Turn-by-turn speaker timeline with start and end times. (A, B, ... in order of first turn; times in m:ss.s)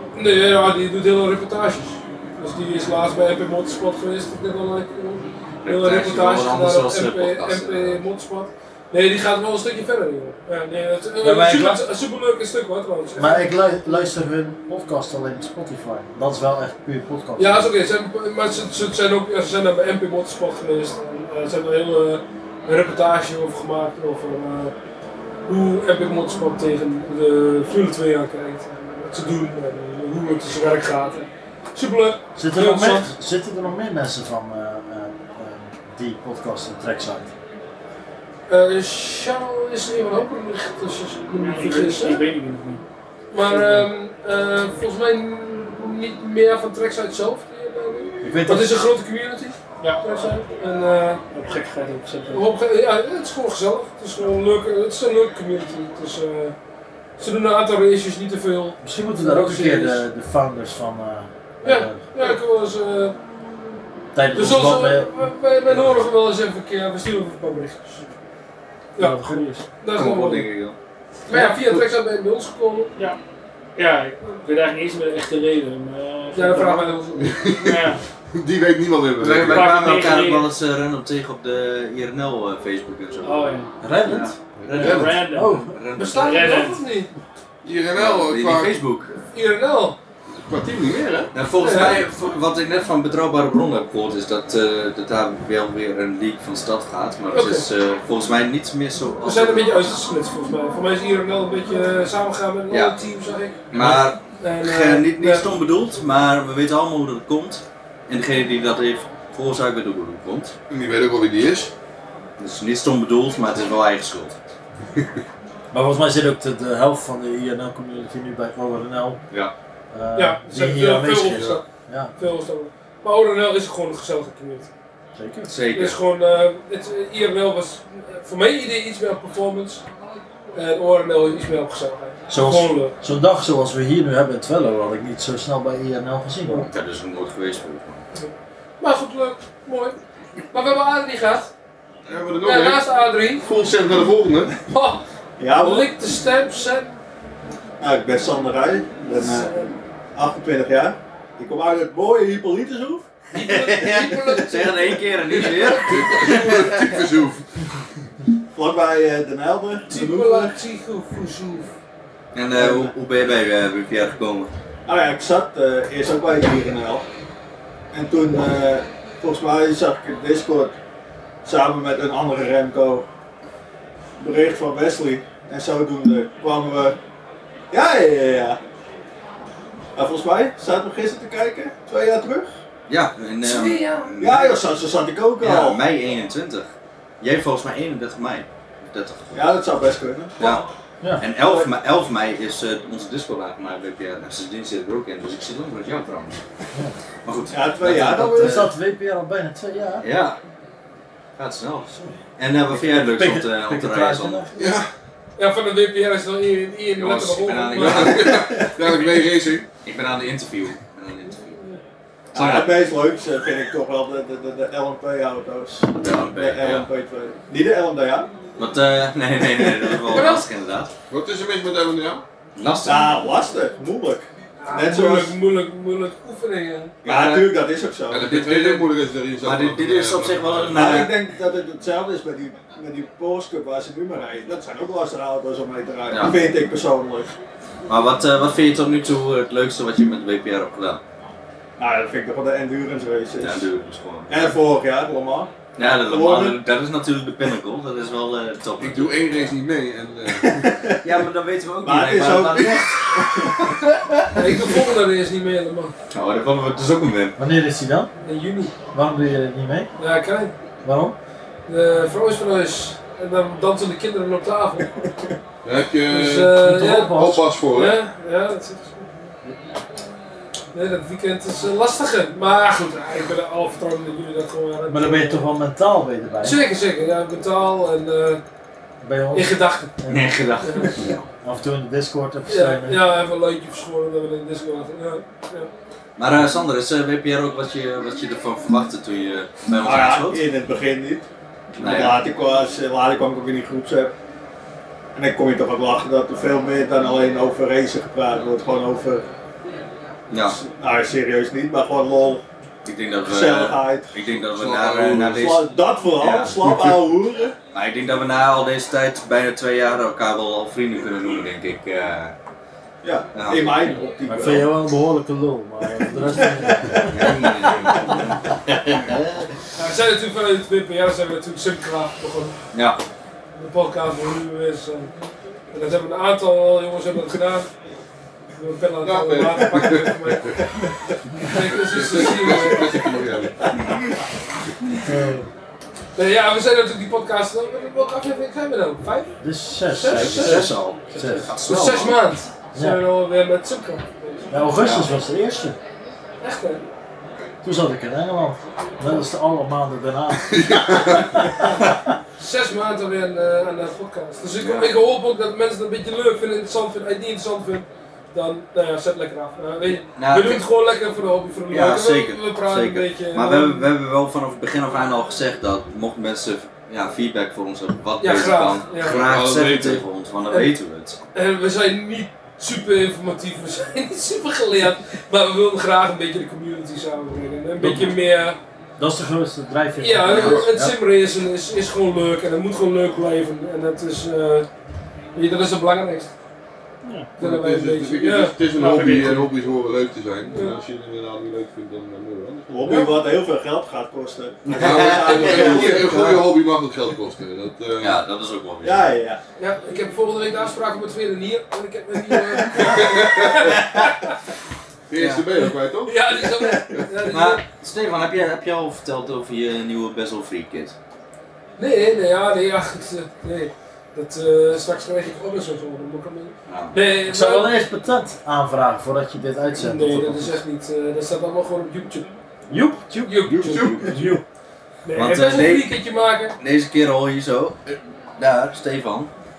0:00.1-0:14.1 A
0:05.6-0:08.0 B
0:11.2-0:11.9 C
0:13.2-0:17.7 C
0:17.4-0:24.7 A
0:25.5-0:33.1 A
0:32.3-0:37.3 C
0:38.5-0:42.2 A
0:41.4-0:42.8 D
0:43.3-0:51.2 A
0:43.4-0:43.9 D
0:48.2-0:48.8 C
0:49.8-0:50.2 D
0:51.3-0:52.5 D
0:52.3-0:56.5 A
0:57.2-1:00.0 A
0:58.8-1:02.3 C
1:01.6-1:03.1 A
1:04.1-1:05.2 C
1:04.3-1:08.0 A
1:09.0-1:10.5 A
1:09.0-1:09.6 D
1:09.9-1:10.8 B
1:11.3-1:12.9 A
1:13.8-1:17.0 D
1:16.3-1:17.3 A
1:17.2-1:20.0 E
1:17.6-1:18.0 D
1:19.2-1:23.5 B
1:19.4-1:20.5 D
1:23.2-1:23.7 D
1:23.8-1:24.3 C
1:24.0-1:26.5 B
1:24.6-1:25.2 E
1:24.7-1:26.8 D
1:25.3-1:25.7 C
1:25.9-1:27.1 A
1:27.6-1:28.8 E
1:27.9-1:29.1 B
1:29.3-1:30.0 A
1:30.4-1:31.3 E
1:31.3-1:40.0 B
1:31.6-1:32.0 A
1:37.3-1:37.6 A
1:39.2-1:43.7 A
1:42.7-1:43.0 B
1:43.7-1:50.5 B
1:44.4-1:45.5 A
1:50.7-1:51.7 E
1:52.4-1:54.3 B
1:55.7-1:59.2 C
1:59.9-2:02.1 C
2:00.1-2:01.6 A
2:02.2-2:04.7 A
2:05.2-2:05.5 C
2:05.5-2:06.0 B
2:05.7-2:09.8 A
2:10.5-2:12.9 A
2:12.3-2:16.7 C
2:16.6-2:18.0 B
2:18.8-2:20.0 A
2:20.5-2:21.5 A
2:22.1-2:22.8 E
2:22.4-2:23.4 A
2:23.4-2:24.5 E
2:24.7-2:25.0 A
2:25.4-2:25.9 F
2:25.6-2:26.9 A
2:27.8-2:33.1 F
2:29.2-2:29.6 A
2:33.3-2:36.6 A
2:33.4-2:37.0 B
2:35.4-2:37.4 E
2:38.5-2:40.5 F
2:39.9-2:41.7 A
2:42.3-2:44.5 B
2:42.5-2:42.9 F
2:44.9-2:47.0 F
2:47.9-2:50.7 F
2:51.4-2:53.0 F
2:54.2-2:57.0 F
2:57.7-2:58.6 F
2:59.9-3:02.5 F
3:02.9-3:04.6 B
3:03.4-3:04.1 A
3:04.2-3:05.8 F
3:05.4-3:06.7 B
3:07.2-3:09.4 B
3:09.3-3:10.6 F
3:10.4-3:10.6 B
3:11.2-3:16.4 B
3:11.4-3:11.7 F
3:17.2-3:18.7 B
3:17.5-3:18.7 F
3:18.0-3:20.0 C
3:20.0-3:20.4 B
3:21.4-3:24.4 B
3:22.7-3:24.5 C
3:24.5-3:24.9 E
3:25.4-3:28.1 A
3:27.0-3:28.5 B
3:27.8-3:29.7 E
3:29.8-3:31.6 B
3:32.3-3:32.8 B
3:32.3-3:38.3 F
3:36.0-3:36.9 B
3:38.6-3:40.9 B
3:39.6-3:40.1 F
3:40.1-3:40.4 A
3:41.1-3:42.2 E
3:42.6-3:43.2 B
3:42.8-3:45.3 F
3:44.6-3:46.9 A
3:47.0-3:47.5 B
3:47.0-3:48.8 F
3:48.1-3:51.0 E
3:49.4-3:51.1 B
3:50.7-3:57.3 F
3:56.1-3:56.4 B
3:57.9-4:01.0 B
4:01.8-4:03.7 F
4:03.4-4:04.6 B
4:04.3-4:06.6 F
4:05.8-4:09.3 B
4:08.8-4:10.6 E
4:10.3-4:11.1 F
4:11.0-4:13.9 B
4:11.8-4:13.7 F
4:14.3-4:15.9 A
4:16.1-4:17.3 B
4:17.4-4:18.1 C
4:18.2-4:18.7 A
4:18.9-4:19.9 C
4:20.0-4:20.5 A
4:20.8-4:21.2 C
4:21.7-4:24.9 A
4:25.6-4:28.0 E
4:26.1-4:27.2 A
4:26.6-4:27.4 C
4:27.7-4:29.3 A
4:30.7-4:35.5 A
4:34.9-4:36.6 C
4:36.4-4:38.4 A
4:39.0-4:40.5 C
4:39.3-4:39.9 A
4:40.1-4:41.3 B
4:40.6-4:40.9 A
4:41.4-4:43.0 C
4:42.5-4:45.7 A
4:46.2-4:50.4 B
4:49.8-4:51.3 F
4:51.8-4:52.2 B
4:51.8-4:54.1 F
4:55.1-4:59.2 F
5:00.3-5:00.6 B
5:00.4-5:02.4 F
5:02.8-5:06.5 B
5:03.2-5:04.1 F
5:04.5-5:05.5 E
5:05.3-5:07.6 F
5:07.7-5:12.3 B
5:13.0-5:14.8 F
5:13.3-5:14.0 B
5:14.3-5:17.4 C
5:16.2-5:17.8 F
5:17.0-5:19.5 B
5:19.8-5:22.5 A
5:22.7-5:23.0 B
5:23.6-5:25.1 A
5:25.7-5:27.7 A
5:28.6-5:30.7 A
5:29.0-5:30.2 E
5:31.4-5:33.0 A
5:31.6-5:33.7 E
5:35.0-5:35.5 C
5:36.2-5:39.3 A
5:39.4-5:41.6 C
5:39.8-5:40.7 A
5:40.1-5:42.2 B
5:41.2-5:44.5 A
5:42.7-5:43.0 C
5:44.5-5:45.8 C
5:44.8-5:45.1 B
5:46.4-5:46.8 A
5:47.6-5:51.5 C
5:50.5-5:51.4 E
5:52.4-6:03.9 A
5:54.6-5:55.0 B
6:00.1-6:00.6 B
6:01.7-6:11.2 B
6:08.2-6:09.2 A
6:09.0-6:10.0 E
6:11.3-6:18.6 A
6:17.8-6:18.2 C
6:19.0-6:21.0 C
6:20.0-6:24.7 A
6:20.4-6:20.7 E
6:25.3-6:26.3 A
6:27.0-6:27.3 D
6:27.4-6:28.6 A
6:27.4-6:33.1 E
6:28.7-6:29.5 D
6:30.5-6:30.8 A
6:32.7-6:36.0 F
6:32.9-6:33.1 A
6:34.7-6:38.2 E
6:34.8-6:36.4 B
6:35.3-6:36.0 A
6:38.0-6:39.1 B
6:38.8-6:39.4 F
6:39.6-6:44.3 A
6:42.8-6:43.7 E
6:43.7-6:44.1 B
6:45.1-6:46.4 E
6:45.2-6:45.4 B
6:45.6-6:47.6 A
6:47.3-6:50.9 B
6:51.8-6:57.8 A
6:56.7-6:57.0 B
6:57.2-7:00.6 C
6:59.7-7:02.3 A
7:02.7-7:04.4 C
7:03.2-7:04.1 A
7:03.4-7:04.1 E
7:05.0-7:06.6 A
7:05.1-7:05.9 B
7:06.6-7:09.3 B